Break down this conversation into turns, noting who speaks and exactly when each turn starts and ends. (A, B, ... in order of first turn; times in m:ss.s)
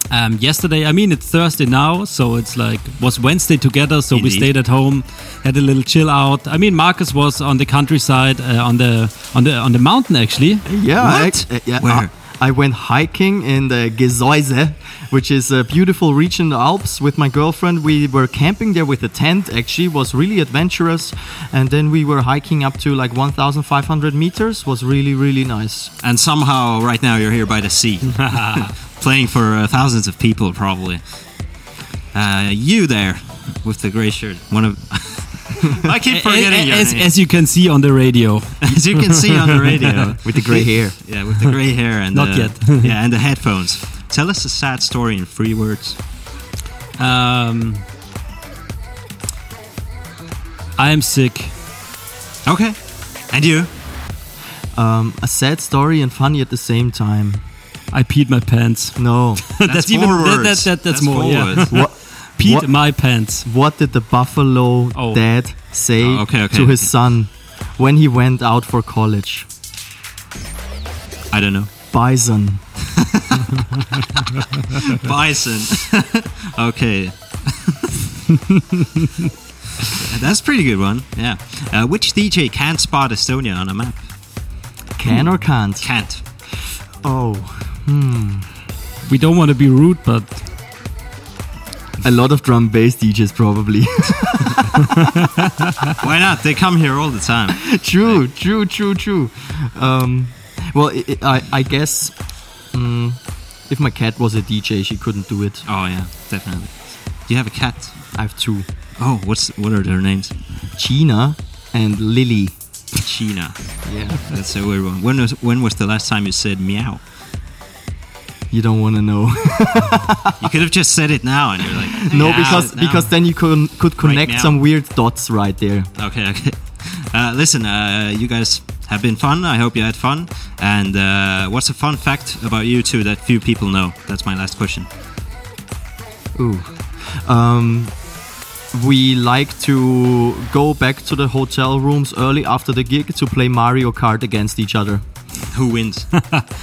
0:00.1-0:10.7 A
0:04.1-0:04.5 B
0:10.6-0:25.9 C
0:11.0-0:12.1 B
0:26.0-0:31.6 B
0:32.1-0:37.1 B
0:36.1-0:39.4 A
0:38.6-0:46.0 B
0:40.2-0:41.0 C
0:41.9-0:43.0 A
0:47.0-0:47.8 A
0:50.8-0:51.5 A
0:52.4-0:53.7 B
0:54.7-0:57.4 C
0:57.9-1:03.5 A
0:59.0-0:59.4 C
0:59.6-1:01.7 B
1:01.7-1:09.5 C
1:04.9-1:05.2 A
1:06.0-1:06.9 B
1:11.3-1:11.7 B
1:11.9-1:12.8 C
1:14.8-1:17.9 B
1:19.9-1:24.1 B
1:25.0-1:25.9 C
1:25.1-1:26.2 B
1:27.0-1:28.5 C
1:29.0-1:30.4 A
1:32.0-1:34.8 C
1:36.0-1:38.2 B
1:37.7-1:45.7 C
1:45.6-1:48.1 B
1:48.1-1:48.6 C
1:49.0-1:50.4 B
1:50.7-1:52.9 C
1:53.0-1:57.0 B
1:53.8-1:54.2 C
1:58.5-2:00.4 C
2:00.4-2:03.1 B
2:02.0-2:05.9 C
2:04.0-2:04.6 B
2:05.9-2:14.9 B
2:16.3-2:18.2 C
2:18.7-2:25.0 C
2:25.5-2:26.2 B